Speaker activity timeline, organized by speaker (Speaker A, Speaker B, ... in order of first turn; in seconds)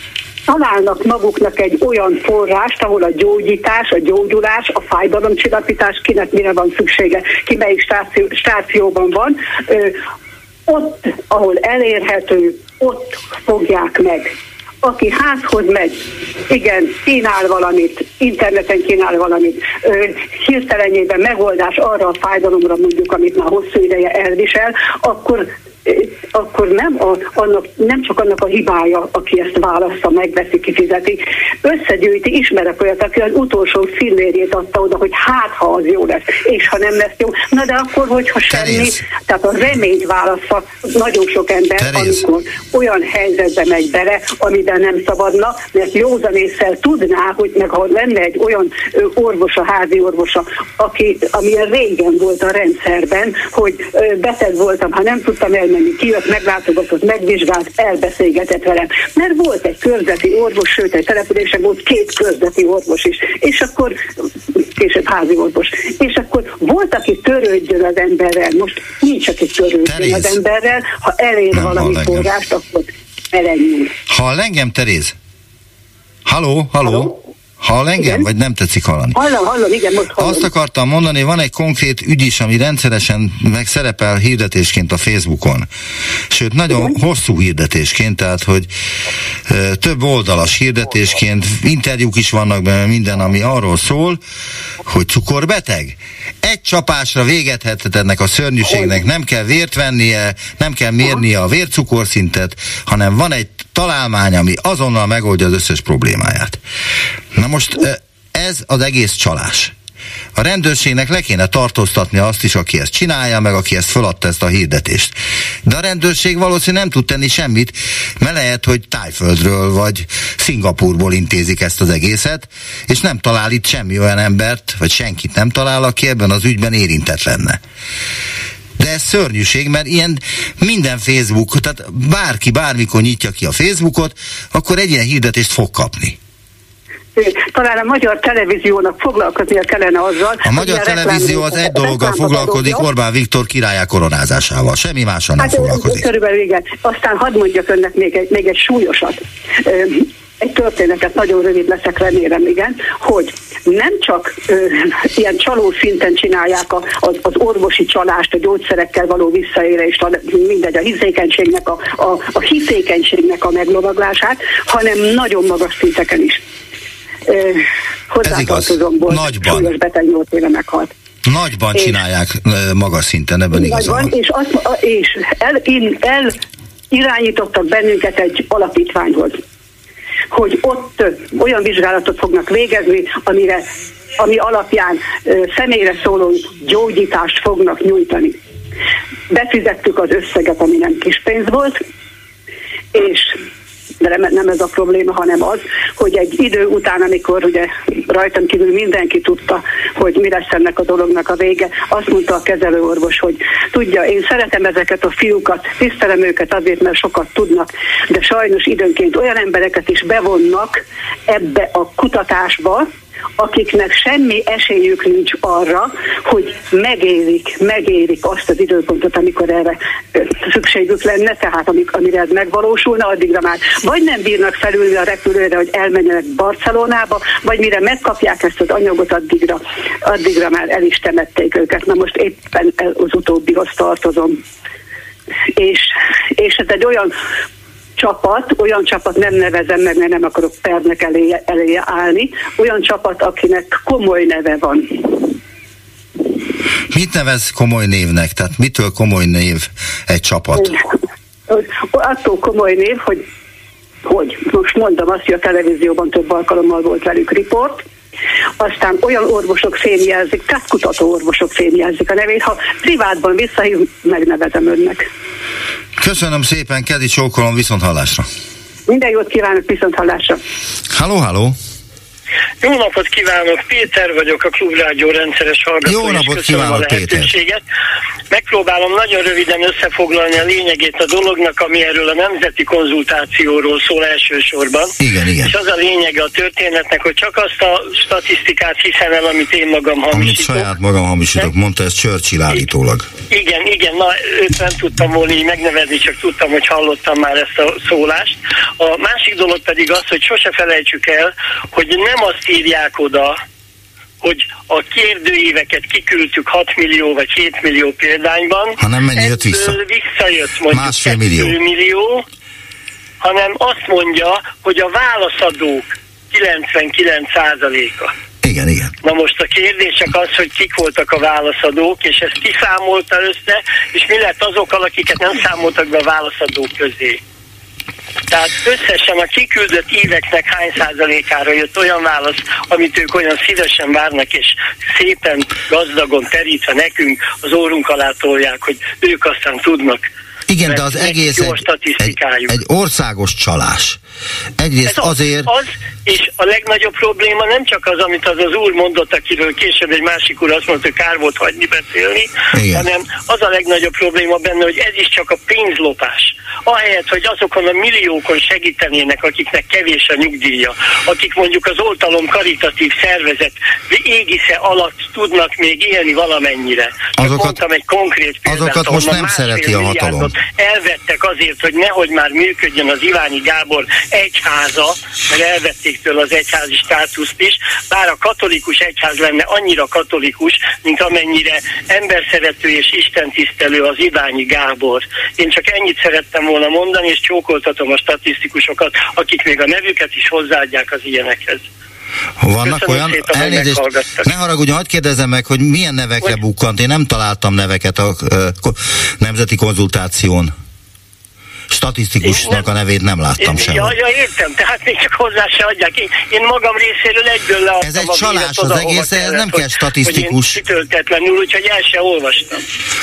Speaker A: 0.5-10.0, 10.7-64.0, 64.5-73.9, 78.0-78.2, 79.1-80.5, 137.2-142.9, 145.4-166.4, 167.3-170.9, 173.5-176.4, 176.9-179.4, 180.3-183.6, 184.2-188.4, 189.3-191.8, 192.9-193.4, 194.0-234.4, 235.6-237.1, 238.0-245.4, 251.5-253.2, 254.0-257.8, 258.6-265.0, 268.9-270.4
Speaker B: 38.5-39.0, 41.8-42.2, 69.8-70.4, 71.5-72.2, 74.1-75.1, 76.2-79.2, 80.2-85.7, 86.3-88.7, 89.5-94.2, 94.8-106.6, 107.3-109.7, 110.3-127.6, 128.8-136.2, 140.4-146.1, 168.2-169.7, 171.2-174.1, 246.9-250.8, 266.0-268.3, 270.9-271.6, 275.8-277.3, 285.0-285.6, 290.1-293.1, 308.8-309.8, 310.7-311.6, 318.4-318.9, 340.5-344.0, 344.6-345.5, 352.5-352.9, 367.2-367.6, 368.4-370.4, 392.4-400.5, 401.7-403.9, 407.8-410.6
Speaker C: 272.6-277.6, 278.3-290.7, 293.3-303.3, 304.2-312.2, 313.2-318.1, 319.0-327.2, 328.3-340.0, 340.6-342.5, 344.8-391.6, 392.6-394.3, 402.2-402.6, 403.4-412.6